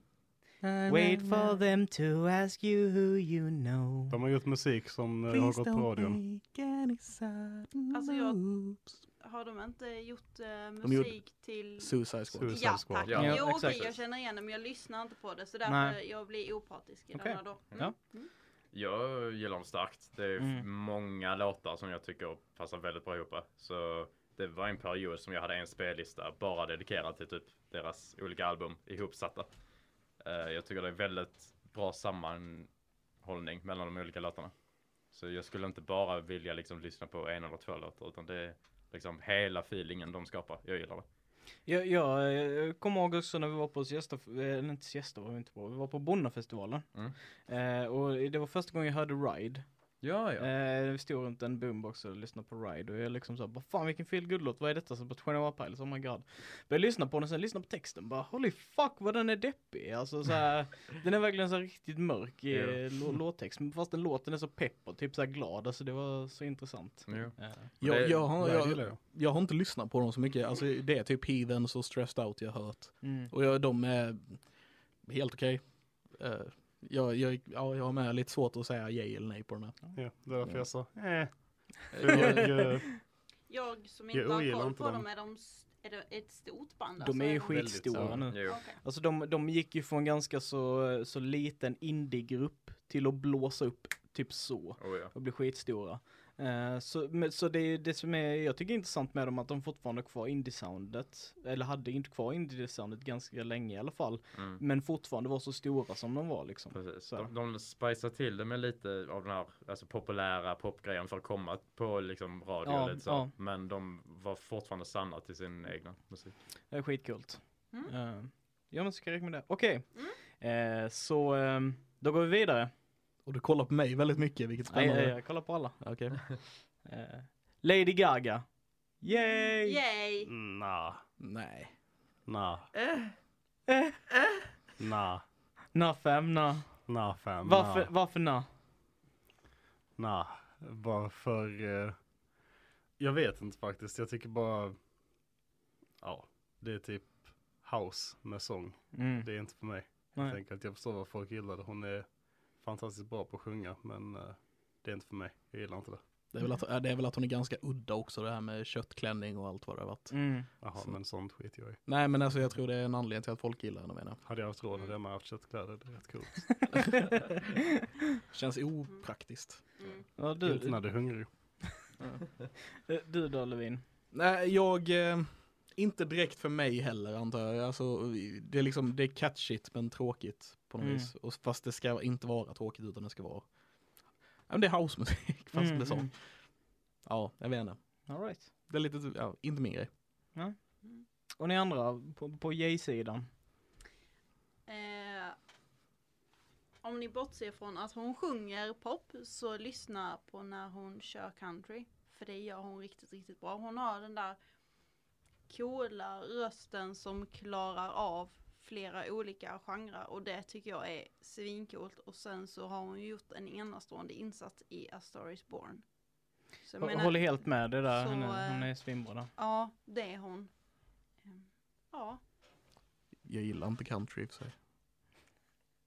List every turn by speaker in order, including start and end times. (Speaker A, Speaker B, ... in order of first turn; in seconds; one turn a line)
Speaker A: 0.6-1.6
Speaker B: 0.9-4.2
Speaker C: 4.1-6.2
Speaker A: 5.3-8.9
Speaker D: 7.9-8.5
Speaker D: 9.2-18.3
Speaker A: 10.8-12.9
Speaker C: 12.3-13.2
Speaker E: 13.1-14.0
Speaker B: 13.1-13.8
Speaker B: 15.7-16.0
Speaker B: 17.1-17.9
Speaker E: 18.7-29.6
Speaker B: 20.4-20.7
Speaker E: 30.2-32.7
Speaker E: 33.2-34.5
Speaker E: 35.1-41.1
Speaker B: 41.7-67.7
Speaker E: 50.0-50.5
Speaker E: 62.5-62.8
Speaker E: 67.1-68.2
Speaker A: 67.8-74.5
Speaker C: 68.3-69.0
Speaker B: 73.0-73.3
Speaker A: 75.0-79.8
Speaker C: 79.9-83.0
Speaker A: 82.0-82.5
Speaker B: 82.1-82.7
Speaker D: 83.5-87.9
Speaker C: 84.1-85.0
Speaker B: 87.0-107.3
Speaker C: 87.5-88.3
Speaker E: 88.3-88.6
Speaker D: 88.4-88.8
Speaker E: 94.8-95.1
Speaker E: 104.3-104.6
Speaker E: 106.7-116.3
Speaker B: 112.7-113.3
Speaker B: 116.7-122.7
Speaker A: 123.2-126.3
Speaker B: 124.7-125.8
Speaker B: 126.8-129.8
Speaker D: 129.1-130.3
Speaker C: 130.3-131.0
Speaker A: 131.2-131.7
Speaker C: 132.3-132.7
Speaker B: 133.7-134.0
Speaker C: 134.8-135.2
Speaker B: 135.7-136.9
Speaker C: 136.9-137.9
Speaker B: 137.4-138.5
Speaker C: 140.0-142.0
Speaker C: 143.0-144.8
Speaker C: 146.0-156.0
Speaker B: 148.9-150.4
Speaker A: 156.3-161.0
Speaker B: 160.1-160.5
Speaker C: 160.6-161.8
Speaker A: 161.9-164.2
Speaker C: 164.2-167.0
Speaker A: 168.3-169.7
Speaker D: 169.8-170.1
Speaker B: 170.2-171.1
Speaker C: 170.4-171.3
Speaker B: 172.8-173.8
Speaker A: 174.1-183.5
Speaker B: 180.8-181.1
Speaker A: 184.5-186.4
Speaker B: 185.5-186.1
Speaker A: 187.0-188.1
Speaker B: 188.1-188.5
Speaker A: 188.7-189.9
Speaker B: 191.4-193.3
Speaker D: 194.7-195.4
Speaker D: 196.8-204.4
Speaker D: 205.5-215.8
Speaker D: 216.5-218.7
Speaker B: 216.8-219.3
Speaker D: 219.3-220.5
Speaker D: 221.2-222.2
Speaker A: 223.2-224.5